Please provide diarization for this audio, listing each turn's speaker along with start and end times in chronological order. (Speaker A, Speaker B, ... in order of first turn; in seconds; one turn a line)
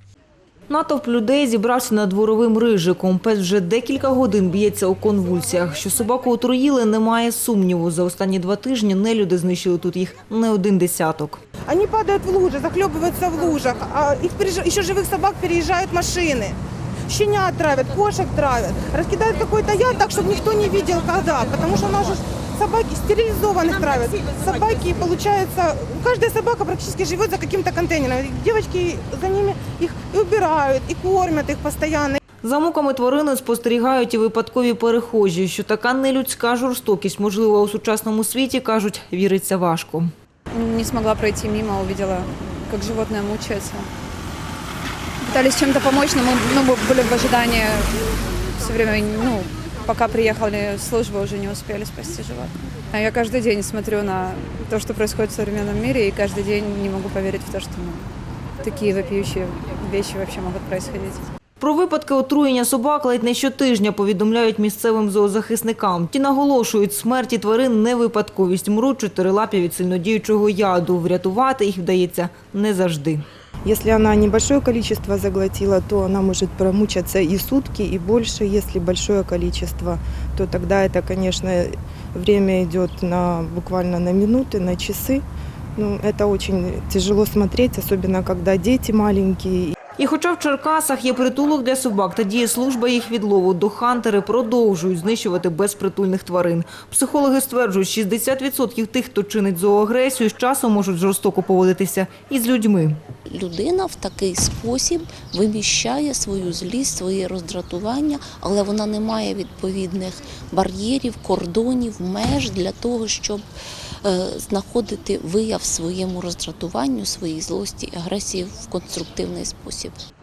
Speaker A: 0.7-11.4
Speaker B: 11.7-14.5
Speaker B: 15.4-16.4
Speaker B: 17.1-23.2
Speaker B: 23.8-26.7
Speaker B: 27.6-32.1
Speaker A: 32.4-40.1
Speaker C: 40.5-43.9
Speaker C: 45.2-58.1
Speaker C: 58.6-61.3
Speaker A: 61.6-73.2
Speaker D: 73.6-85.2
Speaker D: 85.8-89.8
Speaker A: 90.0-103.0
Speaker E: 103.3-113.4
Speaker E: 114.0-120.0